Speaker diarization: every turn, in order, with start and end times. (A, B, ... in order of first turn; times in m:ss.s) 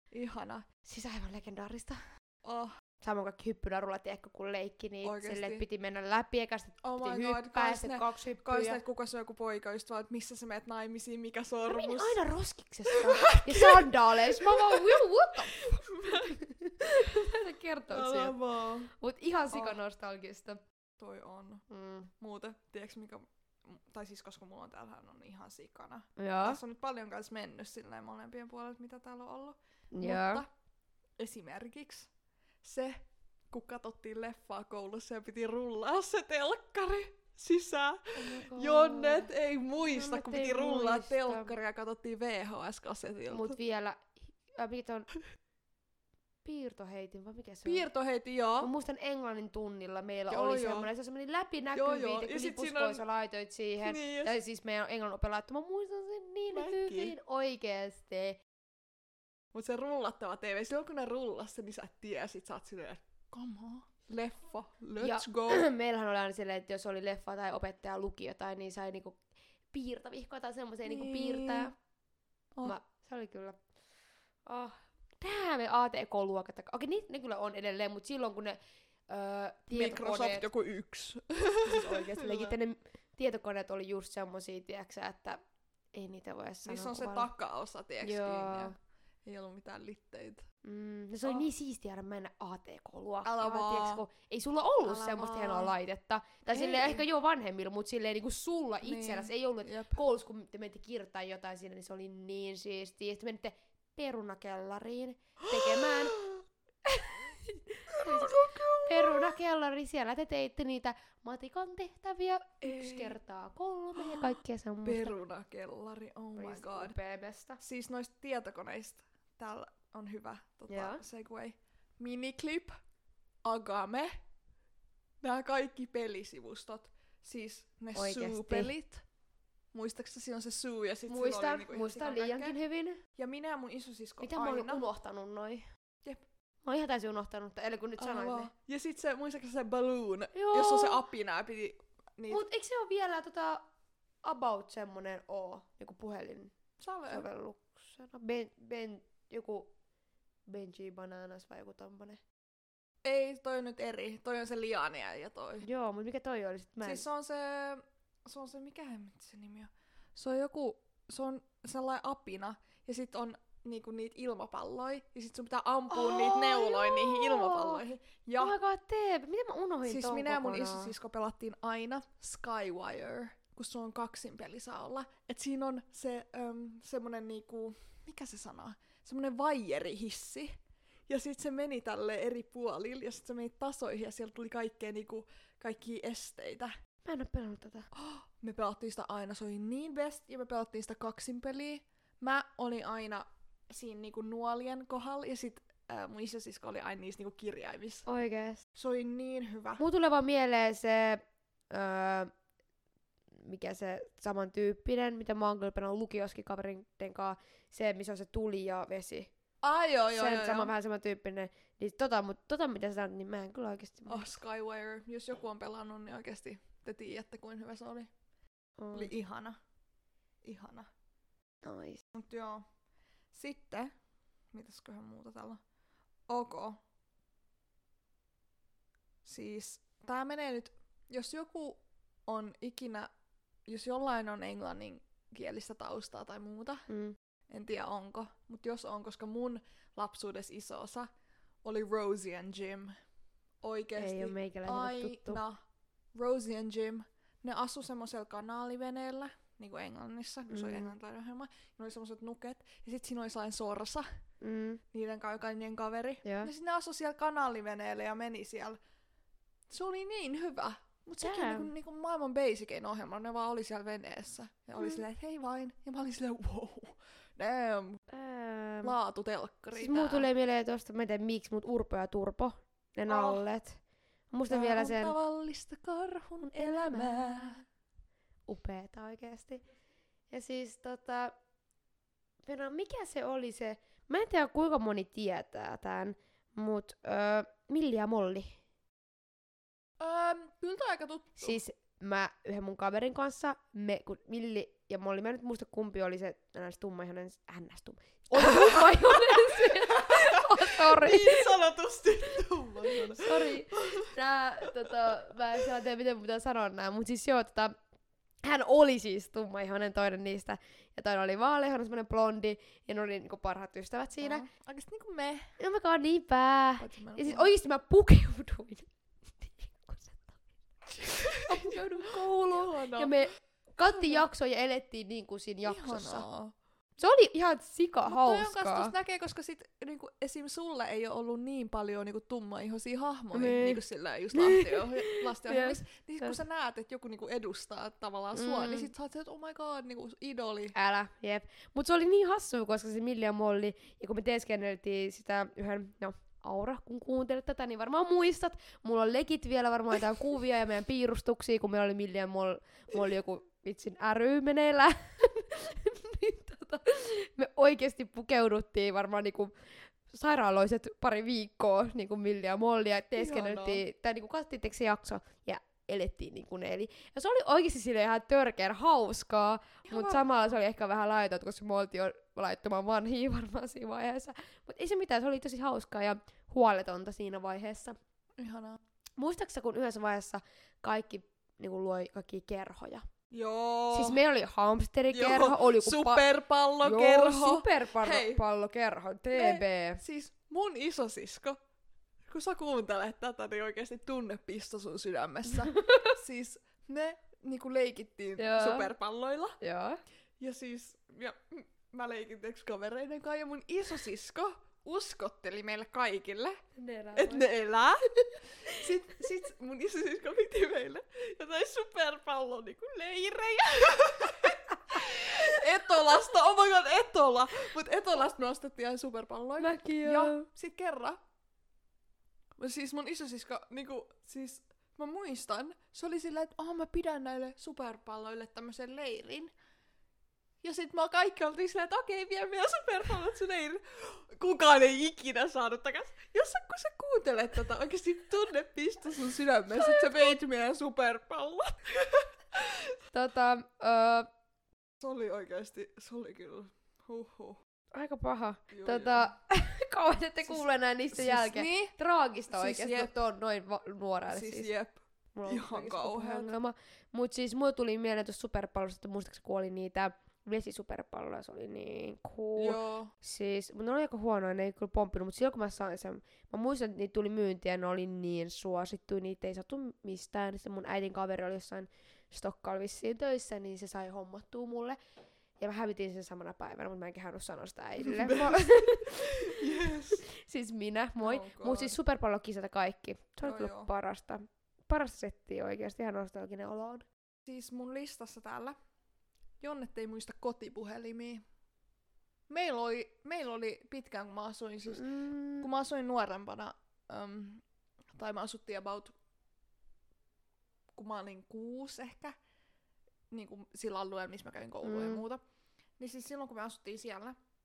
0:00.1-0:00.6 A
0:00.8-0:02.0 B
0:02.4-0:02.7 A
0:03.0-0:08.8 B
0:05.0-0:05.6 A
0:06.8-0:12.2 A
0:11.7-0:20.6 B
0:12.9-0:17.3 A
0:17.9-0:18.9 A
0:19.5-0:19.8 A
0:21.0-0:21.6 A
0:21.7-0:22.1 B
0:22.2-0:30.5 A
0:26.2-0:26.6 B
0:29.9-0:30.4 B
0:31.2-0:32.1 A
0:32.6-0:43.6 A
0:38.2-0:39.3 B
0:39.8-0:41.5 B
0:43.3-0:45.1 B
0:46.4-0:47.9 B
0:47.6-0:48.7 A
0:48.6-0:58.4 B
0:50.3-0:50.9 A
0:51.7-0:53.0 A
0:53.8-0:54.4 A
0:56.5-0:57.1 A
0:59.5-1:05.7 A
1:05.0-1:09.2 B
1:09.7-1:11.7 B
1:10.8-1:11.7 A
1:12.6-1:13.6 B
1:14.5-1:20.5 B
1:19.7-1:22.6 A
1:21.6-1:25.4 B
1:25.9-1:27.3 B
1:26.6-1:30.4 A
1:28.0-1:28.7 B
1:30.6-1:46.2 B
1:33.2-1:34.0 A
1:34.8-1:35.7 A
1:36.5-1:37.0 A
1:38.8-1:40.0 A
1:45.4-1:46.4 A
1:46.8-1:55.1 B
1:47.9-1:49.4 A
1:52.6-1:53.1 A
1:54.0-1:57.0 A
1:56.4-1:57.6 B
1:57.6-2:02.7 A
2:00.7-2:01.0 B
2:03.4-2:04.1 A
2:05.2-2:09.0 A
2:08.0-2:08.7 B
2:09.7-2:12.6 A
2:11.1-2:13.0 B
2:13.2-2:14.8 A
2:14.2-2:15.6 B
2:16.6-2:18.5 B
2:18.0-2:22.4 A
2:20.3-2:21.0 B
2:22.3-2:23.6 B
2:24.2-2:26.5 B
2:26.8-2:27.2 A
2:27.1-2:29.7 B
2:30.5-2:32.2 B
2:33.0-2:35.6 A
2:35.6-2:37.0 B
2:36.8-2:48.6 A
2:45.9-2:47.8 B
2:48.4-2:50.9 B
2:49.8-3:00.5 A
3:01.1-3:06.7 A
3:07.0-3:07.9 B
3:07.9-3:18.1 A
3:18.1-3:18.6 B
3:18.8-3:19.8 A
3:19.8-3:22.3 B
3:23.4-3:29.3 B
3:29.6-3:30.7 A
3:30.1-3:34.3 B
3:34.1-3:38.1 A
3:38.8-3:39.1 B
3:38.9-3:39.6 A
3:40.4-3:40.9 A
3:41.6-3:42.0 B
3:42.1-3:42.6 A
3:43.3-3:43.9 A
3:44.5-3:45.6 A
3:46.3-3:46.8 A
3:49.2-3:53.1 A
3:53.7-3:56.9 A
3:56.9-3:57.2 B
3:57.5-4:01.1 A
4:01.6-4:03.0 A
4:03.6-4:05.6 A
4:04.0-4:05.4 B
4:06.1-4:14.1 A
4:10.5-4:10.9 B
4:14.4-4:14.8 B
4:14.9-4:18.8 A
4:16.2-4:16.5 B
4:19.7-4:28.0 A
4:21.2-4:21.7 B
4:28.1-4:29.0 B
4:28.8-4:30.3 A
4:29.7-4:33.8 B
4:33.1-4:33.4 A
4:34.3-4:35.1 B
4:34.5-4:37.6 A
4:36.4-4:37.5 B
4:38.5-4:39.6 B
4:40.3-4:41.3 B
4:42.4-4:48.6 B
4:50.0-4:51.6 A
4:51.4-5:01.5 B
4:58.3-5:05.1 A
5:02.9-5:07.8 B
5:08.4-5:14.5 B
5:14.2-5:15.5 A
5:15.6-5:20.4 B
5:16.8-5:17.5 A
5:20.9-5:23.3 A
5:21.4-5:26.3 B
5:23.8-5:24.2 A
5:25.6-5:26.5 A
5:27.0-5:28.9 B
5:28.0-5:40.8 A
5:33.3-5:33.8 B
5:34.3-5:36.4 B
5:38.3-5:38.9 B
5:40.7-6:18.0 B
6:03.2-6:03.8 A
6:09.9-6:10.3 A
6:18.4-6:18.8 A
6:19.2-6:23.0 B
6:23.3-6:24.2 A
6:23.9-6:26.3 B
6:25.1-6:28.4 A
6:26.8-6:30.0 B
6:29.3-6:31.6 A
6:32.3-6:39.6 A
6:35.5-6:36.2 B
6:38.4-6:38.9 B
6:39.6-6:40.0 B
6:40.4-6:46.6 A
6:46.8-6:47.5 B
6:47.1-6:48.1 A
6:48.1-6:48.9 B
6:48.6-7:01.2 A
6:59.6-7:00.5 B
7:02.6-7:09.5 A
7:10.6-7:23.0 A
7:19.7-7:20.3 B
7:23.1-7:24.3 B
7:25.0-7:27.6 A
7:27.9-7:34.7 B
7:28.7-7:29.3 A
7:30.4-7:32.0 A
7:32.5-7:33.1 A
7:34.3-7:36.5 A
7:35.4-7:55.0 B
7:42.6-7:43.1 A
7:55.6-8:07.1 B
7:58.0-8:00.2 A
8:01.2-8:02.0 A
8:03.4-8:03.9 A
8:07.5-8:08.8 A
8:09.6-8:11.4 A
8:12.5-8:15.1 A
8:14.9-8:15.7 B
8:15.6-8:17.6 A
8:18.1-8:19.1 A
8:21.0-8:22.4 A
8:23.3-8:25.4 A
8:24.8-8:25.2 B
8:26.0-8:27.4 A